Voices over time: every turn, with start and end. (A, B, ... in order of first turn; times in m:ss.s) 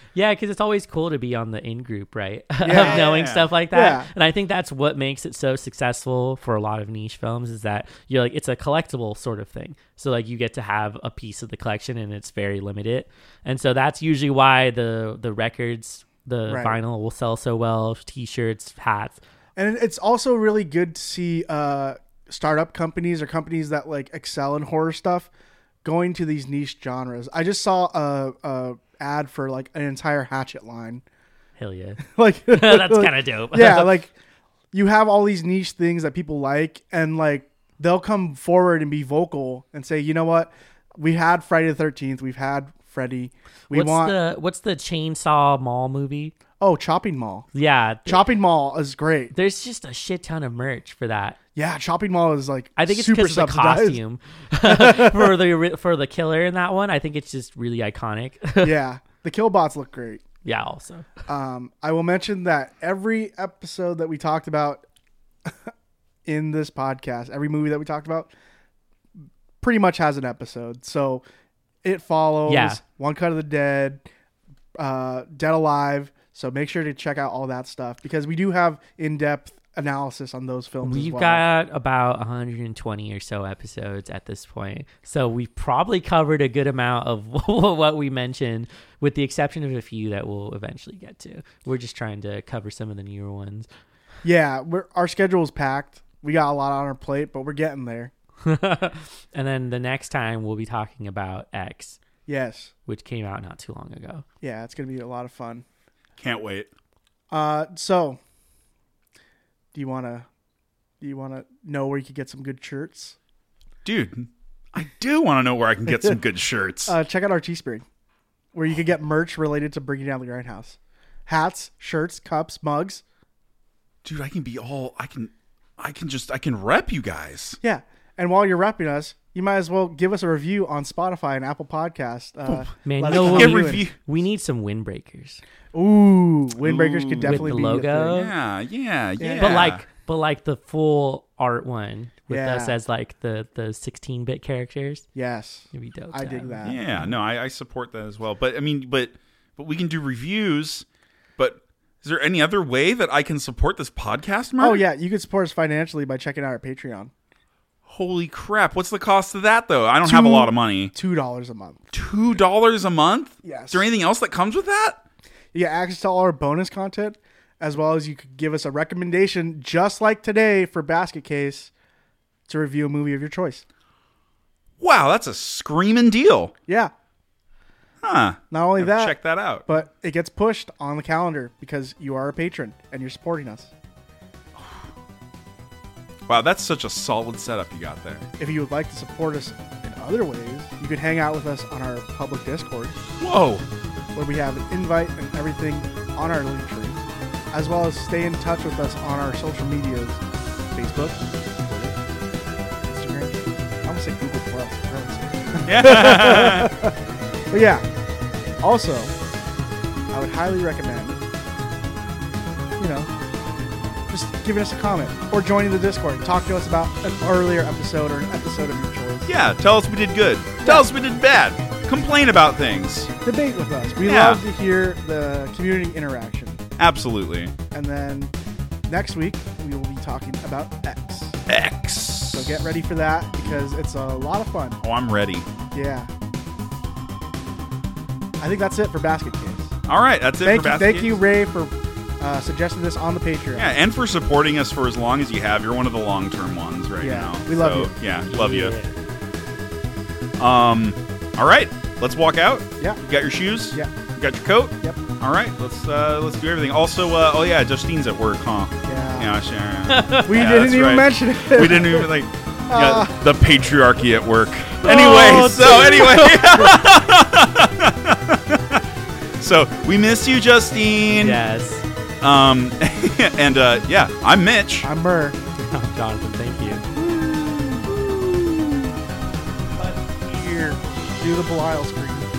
0:00.2-0:19.2 A
0:02.6-0:03.2 B
0:02.8-0:03.5 C
0:03.7-0:04.1 B
0:16.5-0:16.8 B
0:19.6-0:25.3 B
0:25.8-0:31.0 B
0:31.6-0:34.0 A
0:32.0-0:34.1 B
0:34.7-0:44.1 B
0:43.7-0:46.4 A
0:46.6-0:47.5 B
0:47.5-0:48.3 A
0:48.1-0:49.3 B
0:49.3-0:51.4 A
0:51.6-0:54.0 B
0:52.8-0:58.7 A
0:54.6-0:55.4 B
0:58.6-1:00.2 B
1:00.4-1:01.1 A
1:01.3-1:04.8 B
1:05.5-1:05.7 B
1:06.3-1:08.3 B
1:09.6-1:11.2 B
1:11.8-1:14.0 B
1:12.5-1:12.8 A
1:14.8-1:21.4 B
1:20.8-1:33.7 A
1:34.2-1:38.1 B
1:38.4-1:42.0 A
1:42.3-1:42.7 B
1:42.9-1:44.2 A
1:44.4-1:45.6 B
1:46.2-1:46.7 C
1:47.3-1:48.2 B
1:49.7-1:50.3 B
1:51.0-1:53.2 B
1:53.8-1:57.0 C
1:55.9-1:56.2 B
1:56.9-1:57.8 B
1:58.5-2:03.0 B
2:04.0-2:07.6 C
2:07.6-2:13.9 B
2:12.5-2:15.4 A
2:13.1-2:14.0 C
2:15.7-2:18.2 B
2:16.6-2:19.8 C
2:17.2-2:18.3 A
2:19.2-2:19.7 B
2:19.4-2:25.1 A
2:22.3-2:22.8 B
2:25.2-2:26.8 B
2:25.7-2:27.0 A
2:26.6-2:30.8 C
2:31.4-2:34.8 C
2:34.6-2:37.1 B
2:37.9-2:40.9 C
2:40.0-2:41.8 B
2:41.9-2:45.0 C
2:43.4-2:43.9 B
2:45.5-2:51.7 B
2:52.5-2:53.6 B
2:54.8-2:56.5 C
2:58.0-2:59.7 C
2:58.5-3:03.7 B
3:04.6-3:04.8 C
3:06.3-3:08.3 C
3:08.4-3:13.0 B
3:13.2-3:13.6 C
3:14.2-3:22.0 B
3:22.8-3:27.0 B
3:25.6-3:26.7 C
3:27.5-3:27.8 B
3:28.6-3:29.1 B
3:30.1-3:31.2 B
3:32.8-3:33.1 B
3:34.1-3:39.3 B
3:39.3-3:43.1 C
3:43.2-3:46.6 B
3:44.0-3:44.4 C
3:46.8-3:47.5 C
3:47.7-3:48.3 B
3:48.9-3:51.4 B
3:51.5-3:52.6 C
3:52.3-3:54.8 B
3:54.8-3:55.5 C
3:55.7-3:56.1 B
3:58.4-3:59.8 B
3:59.9-4:01.2 C
4:00.4-4:03.8 B
4:03.6-4:08.8 C
4:07.0-4:07.9 B
4:08.3-4:09.0 A
4:10.4-4:28.8 C
4:18.8-4:19.3 B
4:19.9-4:20.4 A
4:20.3-4:22.1 B
4:22.7-4:23.2 B
4:24.8-4:26.8 A
4:29.4-4:31.4 C
4:31.1-4:31.9 A
4:32.2-4:34.9 C
4:34.8-4:35.4 B
4:35.6-4:36.9 A
4:37.0-4:38.5 B
4:39.8-4:42.3 B